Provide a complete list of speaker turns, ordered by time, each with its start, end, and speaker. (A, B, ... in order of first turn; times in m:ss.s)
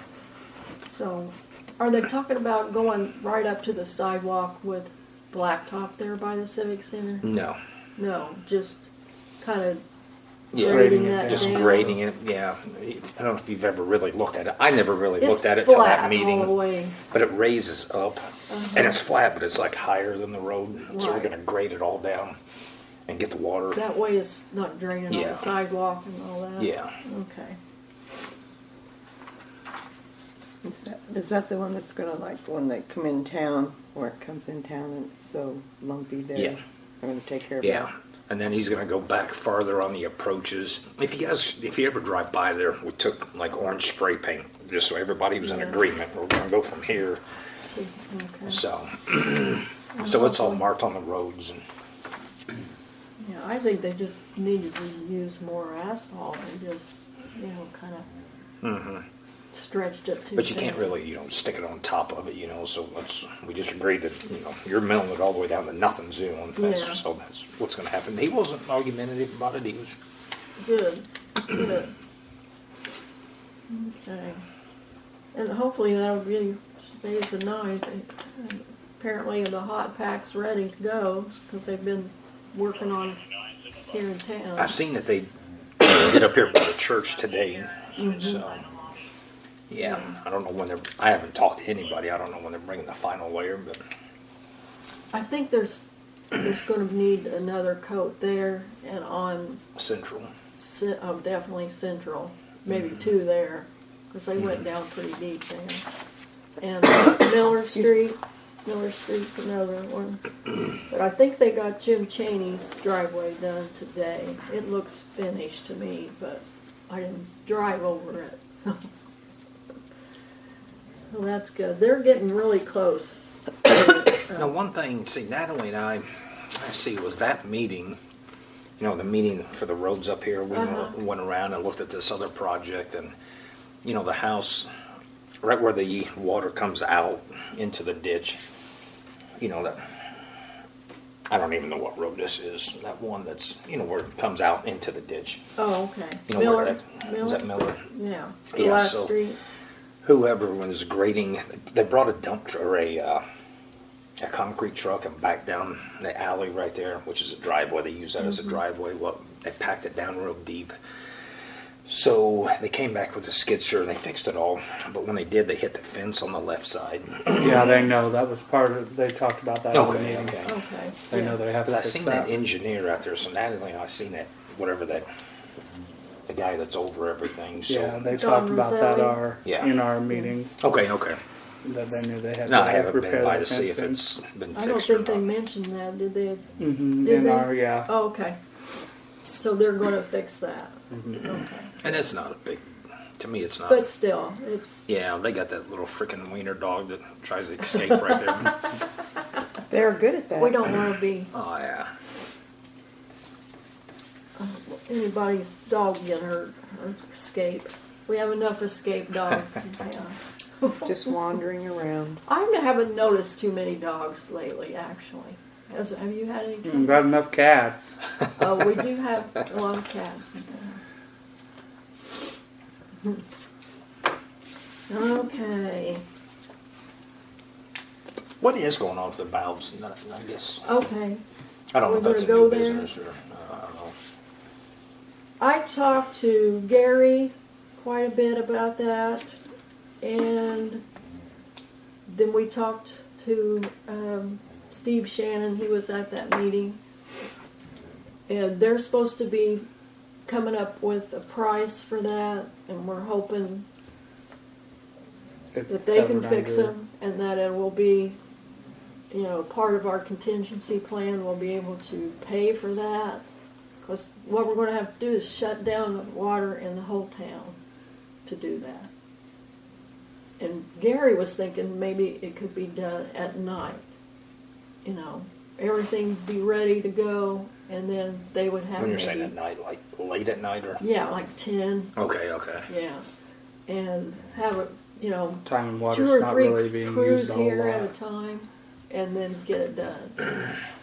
0:00.8-0:07.3 A
0:07.2-0:07.6 B
0:08.0-0:08.9 A
0:09.4-0:09.8 A
0:10.5-0:22.4 B
0:10.6-0:12.0 A
0:10.6-0:11.9 C
0:15.2-0:17.0 A
0:18.5-0:19.0 A
0:20.9-0:21.3 A
0:23.1-0:23.8 B
0:23.7-0:27.6 A
0:25.1-0:25.5 B
0:26.6-0:27.0 B
0:30.6-0:37.9 D
0:37.6-0:47.2 B
0:45.4-0:45.8 A
0:47.7-0:48.6 A
0:48.5-0:51.6 B
0:49.9-0:50.6 A
0:53.2-0:58.0 A
0:58.6-0:59.0 B
0:59.5-1:00.9 A
1:00.4-1:10.0 B
1:06.6-1:07.0 A
1:10.6-1:11.9 A
1:13.7-1:14.4 A
1:15.3-1:23.2 A
1:23.8-1:24.7 A
1:24.6-1:25.3 B
1:25.8-1:28.6 B
1:28.0-1:28.5 A
1:29.7-1:33.8 B
1:29.8-1:30.1 A
1:35.1-1:39.6 A
1:39.7-1:40.3 B
1:40.6-1:45.8 A
1:46.6-1:50.2 A
1:50.9-1:58.8 A
2:01.1-2:04.5 A
2:04.3-2:08.0 B
2:08.8-2:13.1 B
2:10.5-2:10.9 A
2:13.8-2:14.7 B
2:15.4-2:18.4 B
2:19.4-2:19.8 B
2:21.3-2:25.4 B
2:25.6-2:29.4 A
2:26.3-2:27.8 B
2:28.5-2:29.2 B
2:30.0-2:33.2 B
2:34.2-2:40.7 B
2:41.9-2:47.7 B
2:47.3-2:50.4 C
2:49.7-2:50.5 B
2:50.4-2:51.4 A
2:51.1-2:52.3 C
2:51.6-2:55.1 B
2:56.3-2:58.1 B
2:57.7-3:00.5 C
2:58.1-2:59.2 A
2:59.4-2:59.7 B
3:00.6-3:01.2 B
3:01.6-3:04.0 C
3:02.4-3:05.2 B
3:04.5-3:06.5 A
3:06.6-3:07.9 C
3:07.0-3:08.4 A
3:09.3-3:11.8 A
3:10.9-3:11.2 C
3:11.8-3:13.9 B
3:13.7-3:14.8 A
3:14.9-3:18.6 B
3:19.7-3:20.7 D
3:20.4-3:21.3 A
3:21.3-3:21.9 B
3:24.4-3:30.9 A
3:30.8-3:32.2 D
3:32.2-3:37.1 A
3:36.6-3:38.0 C
3:38.4-3:40.8 A
3:44.9-3:46.0 A
3:48.4-3:50.6 B
3:50.6-3:51.2 A
3:51.7-3:53.9 B
3:51.8-3:52.9 A
3:55.4-3:59.3 A
4:00.0-4:00.8 A
4:02.1-4:06.8 A
4:08.3-4:09.6 A
4:10.2-4:13.6 A
4:15.5-4:16.7 C
4:15.7-4:18.2 A
4:19.1-4:23.2 A
4:23.8-4:27.6 A
4:28.2-4:28.9 A
4:30.4-4:33.8 A
4:34.8-4:39.3 A
4:38.8-4:40.8 B
4:40.8-4:41.9 A
4:41.9-4:42.7 B
4:42.7-4:43.0 A
4:43.7-4:50.5 A
4:45.4-4:47.9 C